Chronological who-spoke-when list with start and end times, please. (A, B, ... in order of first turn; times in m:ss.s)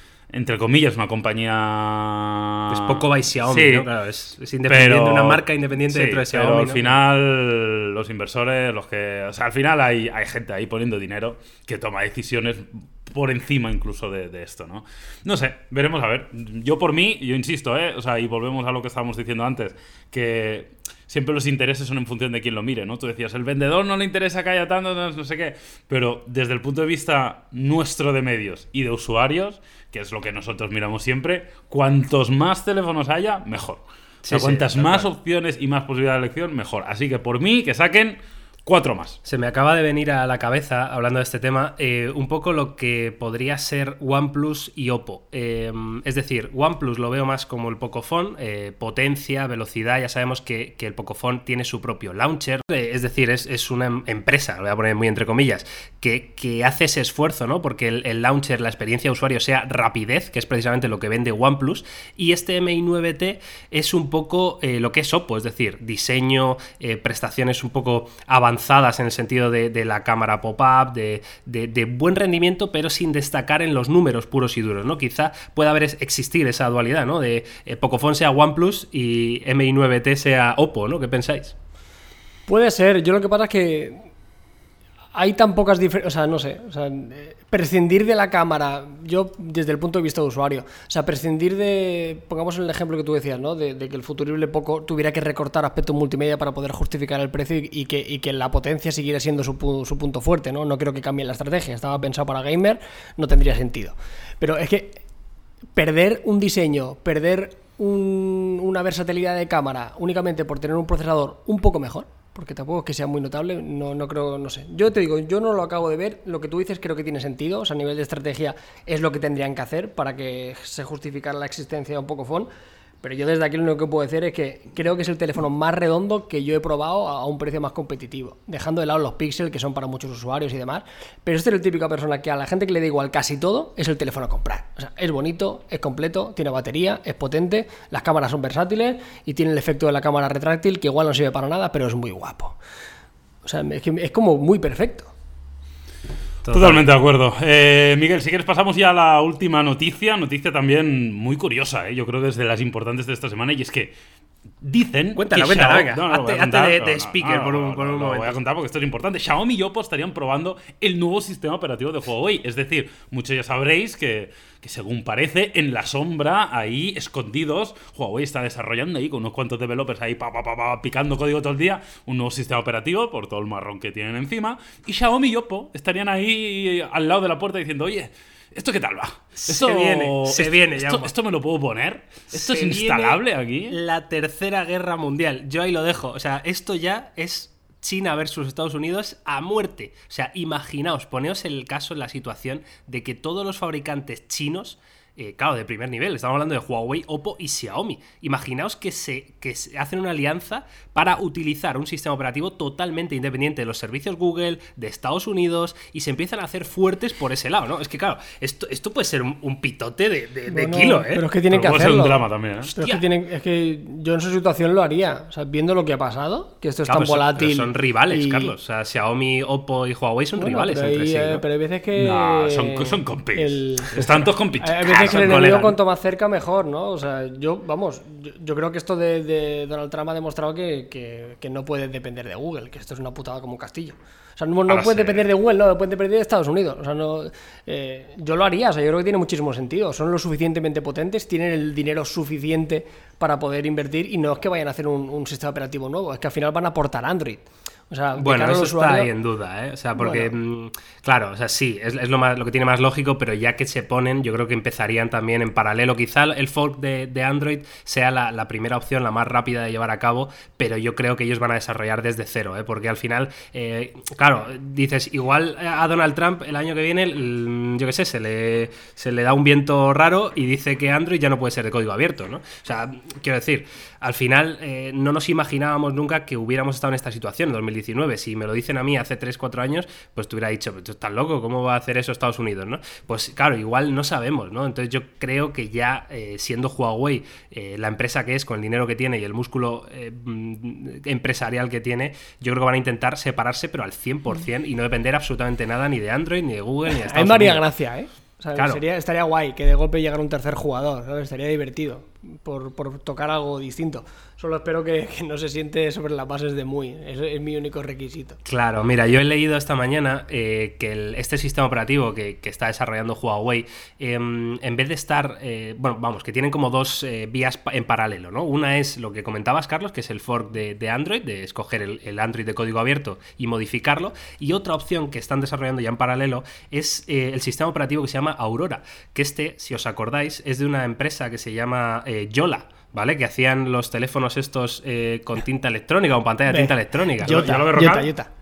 0:00.3-0:03.9 A
0:02.7-0:07.0 B
0:04.7-0:39.2 A
0:34.2-0:35.1 B
0:39.2-1:21.6 B
1:22.5-1:24.1 C
1:25.2-1:45.0 C
1:45.8-2:02.5 C
2:03.0-2:22.6 C
2:23.4-2:25.1 C
2:26.4-2:26.8 B
2:26.5-2:33.9 A
2:34.6-3:03.8 A
2:35.2-2:38.4 B
2:59.4-3:01.1 B
3:02.3-3:31.2 B
3:30.5-3:38.5 C
3:31.5-3:32.7 A
3:32.7-3:33.0 B
3:36.9-3:41.4 B
3:40.4-4:09.1 C
3:41.9-3:45.4 A
3:44.9-3:45.8 B
3:54.7-3:55.2 A
4:08.2-4:57.6 B
4:10.0-4:10.3 C
4:57.0-5:08.4 C
4:58.6-4:58.8 B
5:08.4-5:37.9 B
5:36.5-5:38.3 C
5:37.3-5:38.1 A